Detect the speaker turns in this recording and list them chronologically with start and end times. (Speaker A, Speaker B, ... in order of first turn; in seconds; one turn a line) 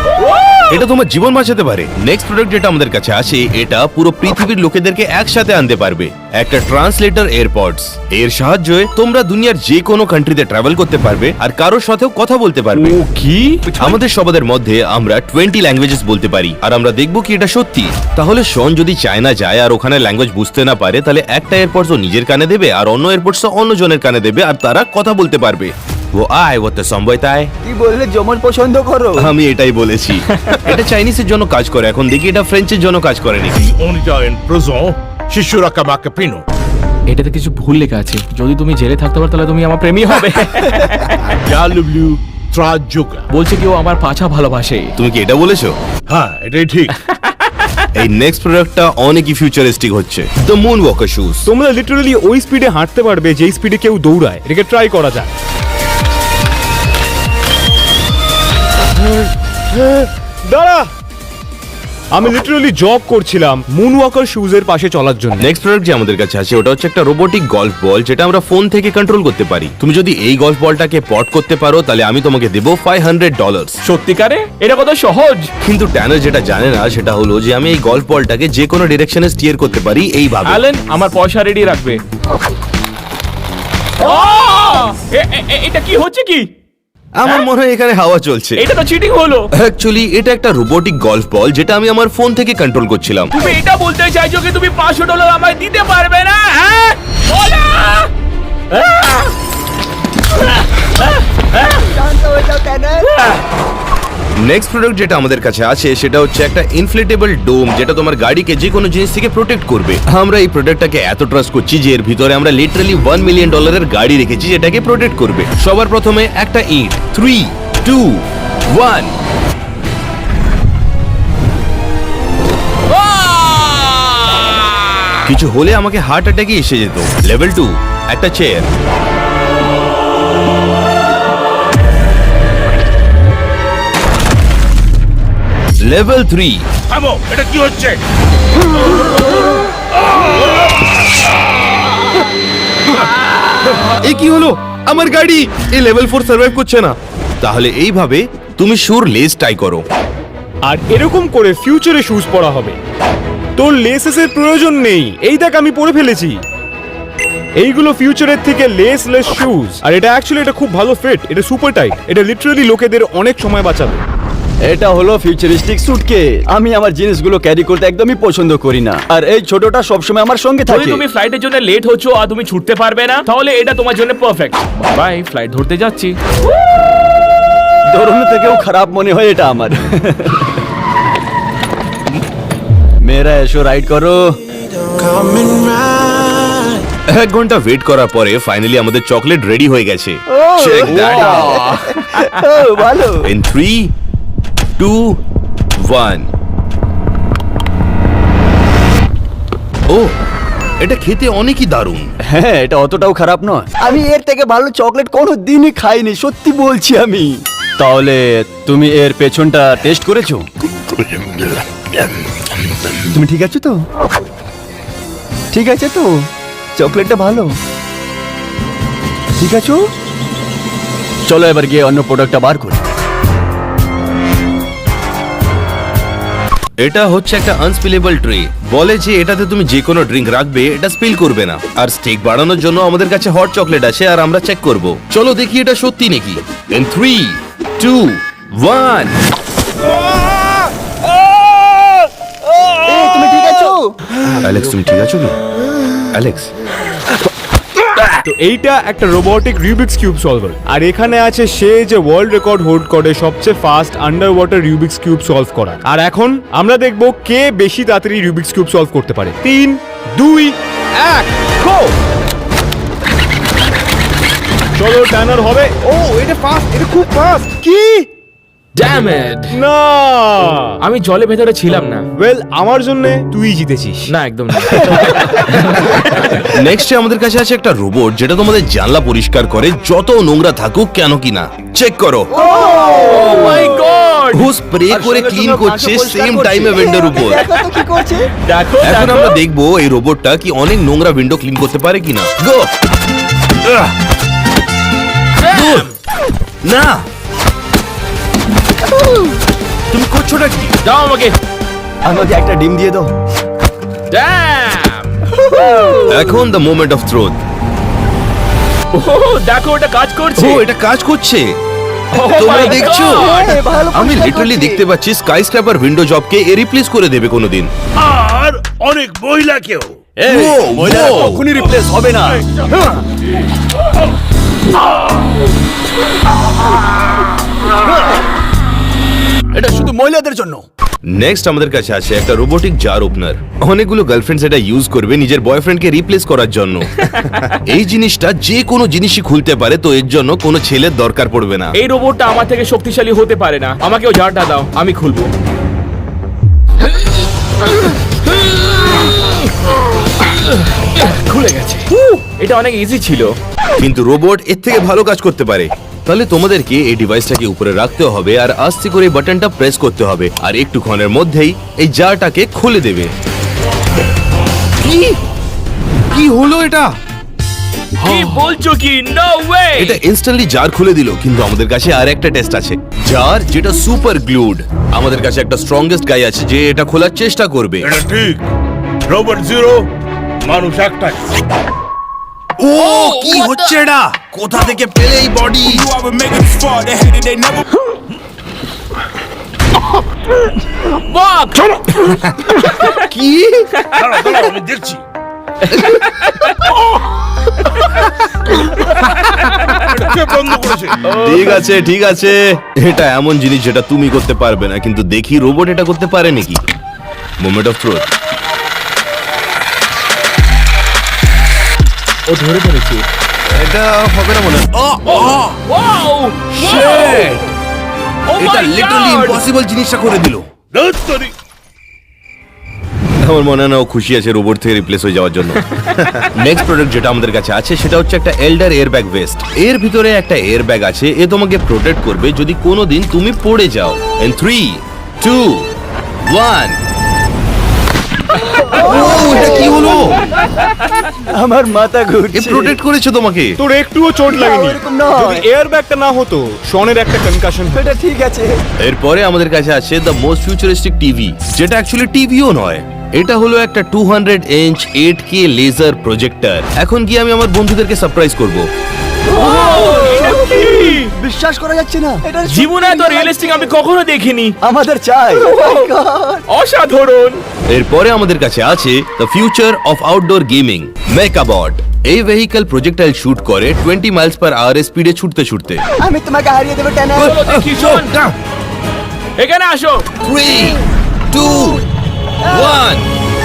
Speaker A: 0.2-0.7
Speaker B: 0.7-13.0
Speaker A: 12.9-13.6
Speaker C: 13.1-13.5
Speaker B: 13.7-27.5
Speaker D: 27.6-29.3
Speaker B: 29.2-33.6
Speaker E: 33.5-36.5
Speaker A: 37.1-41.3
Speaker E: 41.3-43.3
Speaker A: 43.3-44.9
Speaker B: 45.0-45.8
Speaker E: 46.1-47.0
Speaker B: 47.9-51.5
Speaker C: 51.5-55.3
Speaker C: 59.0-60.9
Speaker C: 62.1-65.4
Speaker B: 65.4-73.8
Speaker A: 73.8-75.5
Speaker B: 75.6-80.6
Speaker A: 80.5-82.0
Speaker A: 84.0-86.5
Speaker B: 87.2-88.7
Speaker A: 88.6-89.5
Speaker B: 89.5-93.3
Speaker A: 93.3-98.1
Speaker A: 98.7-99.3
Speaker D: 101.8-103.1
Speaker B: 104.4-119.2
Speaker A: 122.9-125.1
Speaker B: 125.2-128.7
Speaker B: 135.8-136.7
Speaker E: 136.9-138.0
Speaker E: 140.1-140.6
Speaker B: 144.0-149.8
Speaker C: 150.6-152.8
Speaker C: 153.6-156.4
Speaker C: 157.6-164.0
Speaker D: 164.6-171.0
Speaker A: 170.7-176.2
Speaker D: 177.9-180.6
Speaker D: 183.0-184.4
Speaker B: 187.1-191.8
Speaker D: 190.3-193.2
Speaker A: 191.0-191.9
Speaker B: 193.2-193.9
Speaker B: 194.8-195.2
Speaker B: 195.8-196.3
Speaker B: 200.8-202.1
Speaker D: 202.3-210.5
Speaker D: 213.0-213.8
Speaker D: 215.5-216.3
Speaker D: 216.8-217.6
Speaker D: 219.4-219.8
Speaker D: 221.3-222.9
Speaker B: 226.8-239.2
Speaker D: 242.8-243.9
Speaker B: 244.4-245.4
Speaker B: 246.1-246.5
Speaker C: 248.2-261.9
Speaker C: 264.8-268.1
Speaker A: 268.8-269.5
Speaker C: 269.5-270.8
Speaker A: 270.8-272.1
Speaker C: 272.2-275.0
Speaker A: 274.1-276.2
Speaker B: 276.4-282.3
Speaker D: 282.3-283.8
Speaker A: 282.6-284.5
Speaker B: 284.3-287.4
Speaker D: 284.9-288.3
Speaker A: 288.4-289.4
Speaker B: 288.8-292.7
Speaker B: 293.6-293.9
Speaker A: 295.4-295.9
Speaker B: 295.5-295.9
Speaker B: 296.6-297.1
Speaker D: 298.9-299.3
Speaker B: 299.9-300.8
Speaker A: 300.8-301.4
Speaker D: 302.0-303.1
Speaker A: 304.1-305.2
Speaker D: 305.3-306.4
Speaker B: 306.1-307.4
Speaker A: 308.9-310.7
Speaker B: 310.4-311.6
Speaker A: 312.1-313.6
Speaker D: 312.2-314.8
Speaker B: 312.2-317.7
Speaker E: 318.0-320.1
Speaker D: 320.2-323.0
Speaker B: 320.3-321.5
Speaker D: 329.5-330.6
Speaker B: 331.1-341.8
Speaker A: 341.8-345.3
Speaker A: 347.6-349.5
Speaker A: 350.2-353.3
Speaker B: 353.8-363.1
Speaker B: 364.8-365.2
Speaker B: 366.1-367.0
Speaker A: 368.0-370.0
Speaker B: 369.8-377.9
Speaker E: 377.8-378.4
Speaker E: 379.1-379.9
Speaker E: 380.4-381.4
Speaker B: 382.6-386.5
Speaker A: 382.8-383.7
Speaker A: 391.1-392.1
Speaker B: 392.3-393.7
Speaker E: 393.9-395.0
Speaker B: 395.7-396.0
Speaker E: 399.7-401.1
Speaker B: 401.1-406.6
Speaker B: 407.4-408.1
Speaker A: 412.3-413.1
Speaker B: 413.5-415.5
Speaker A: 415.1-417.4
Speaker B: 416.6-417.3
Speaker E: 416.6-417.5
Speaker A: 418.3-419.4
Speaker B: 418.4-420.5
Speaker E: 420.7-421.3
Speaker B: 423.2-435.7
Speaker B: 436.3-436.8
Speaker D: 438.6-440.3
Speaker B: 438.7-440.2
Speaker D: 441.2-442.8
Speaker B: 442.3-443.6
Speaker C: 443.6-447.9
Speaker D: 444.3-445.5
Speaker D: 447.6-448.6
Speaker B: 448.8-458.7
Speaker D: 459.3-463.7
Speaker A: 459.3-461.1
Speaker A: 462.5-464.6
Speaker D: 464.6-466.4
Speaker A: 465.4-465.9
Speaker A: 466.5-467.4
Speaker B: 467.7-475.8
Speaker D: 476.0-477.5
Speaker A: 477.2-478.2
Speaker B: 477.3-478.3
Speaker A: 479.4-480.1
Speaker B: 480.2-481.9
Speaker D: 482.4-482.8
Speaker B: 482.5-483.1